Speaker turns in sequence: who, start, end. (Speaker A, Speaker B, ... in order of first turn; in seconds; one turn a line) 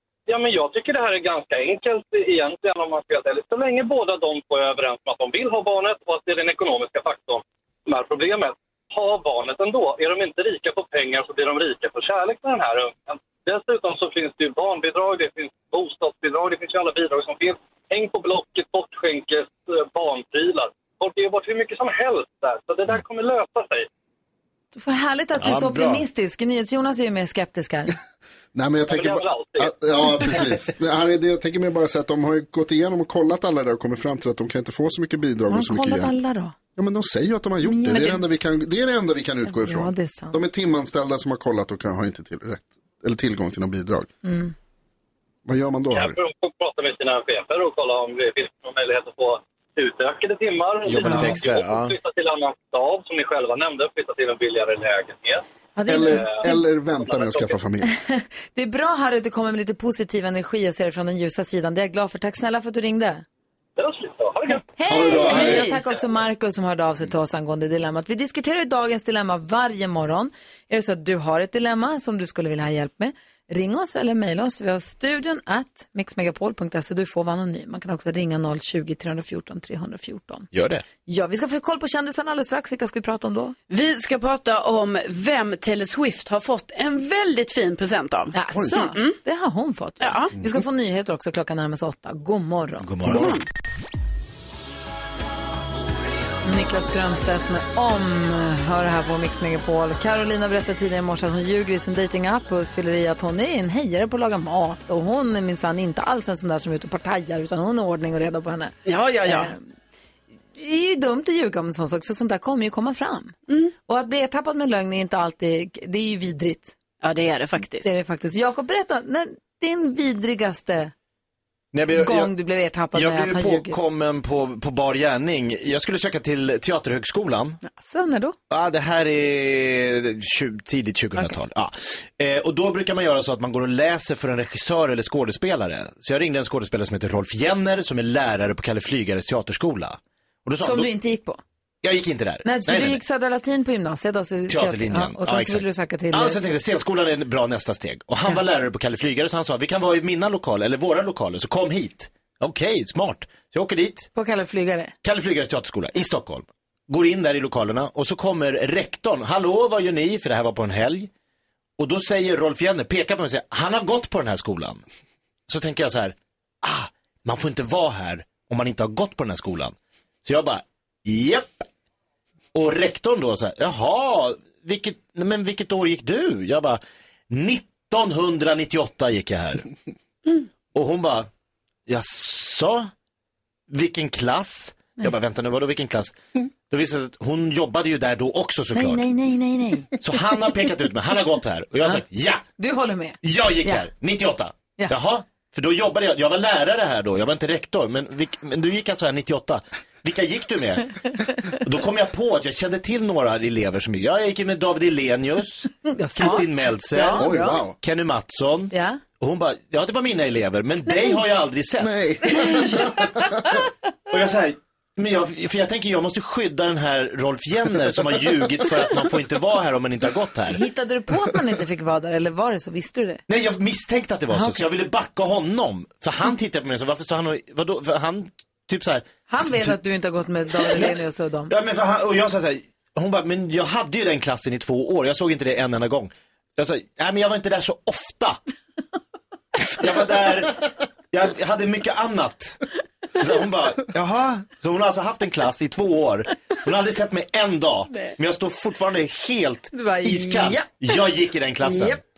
Speaker A: 0.3-23.9
Speaker B: 24.7-27.9
Speaker C: 25.4-26.0
Speaker D: 28.5-36.1
Speaker A: 28.9-30.4
Speaker B: 35.5-36.5
Speaker D: 36.8-44.1
Speaker B: 37.6-38.3
Speaker B: 39.5-40.4
Speaker B: 44.2-44.5
Speaker D: 45.5-46.2
Speaker A: 45.9-55.4
Speaker C: 50.9-51.9
Speaker B: 55.8-56.6
Speaker D: 55.9-57.9
Speaker A: 56.0-56.5
Speaker A: 57.0-57.6
Speaker B: 57.9-63.2
Speaker A: 63.8-66.0
Speaker B: 64.7-80.5
Speaker D: 64.9-65.8
Speaker E: 65.3-65.7
Speaker C: 80.5-80.8
Speaker B: 81.0-83.5
Speaker E: 83.7-89.2
Speaker B: 88.3-92.9
Speaker E: 90.0-90.3
Speaker C: 92.8-93.3
Speaker D: 93.0-93.3
Speaker E: 93.0-93.4
Speaker B: 96.4-109.6
Speaker E: 108.8-109.5
Speaker B: 110.5-113.3
Speaker B: 113.9-116.7
Speaker E: 117.0-117.9
Speaker B: 117.8-120.9
Speaker C: 121.7-122.3
Speaker B: 121.9-123.8
Speaker C: 122.9-127.6
Speaker B: 127.6-128.3
Speaker C: 128.5-140.9
Speaker B: 140.6-141.4
Speaker C: 141.8-143.0
Speaker B: 142.4-146.4
Speaker C: 144.5-154.1
Speaker B: 154.1-154.9
Speaker C: 155.0-161.1
Speaker C: 161.8-164.8
Speaker C: 165.5-171.7
Speaker C: 172.5-179.7
Speaker C: 180.7-181.3
Speaker C: 181.9-182.9
Speaker C: 183.7-186.2
Speaker C: 186.7-189.0
Speaker B: 188.7-189.9
Speaker C: 190.0-192.4
Speaker B: 192.6-193.8
Speaker C: 193.2-212.8
Speaker B: 205.8-207.6
Speaker D: 207.1-207.7
Speaker B: 208.7-209.0
Speaker D: 211.8-213.4
Speaker B: 212.3-212.7
Speaker C: 214.1-220.6
Speaker B: 220.5-223.2
Speaker C: 223.3-229.7
Speaker B: 224.3-224.6
Speaker B: 229.3-231.5
Speaker C: 230.7-230.9
Speaker C: 231.5-238.4
Speaker C: 239.7-252.0
Speaker B: 249.7-250.7
Speaker B: 251.6-252.0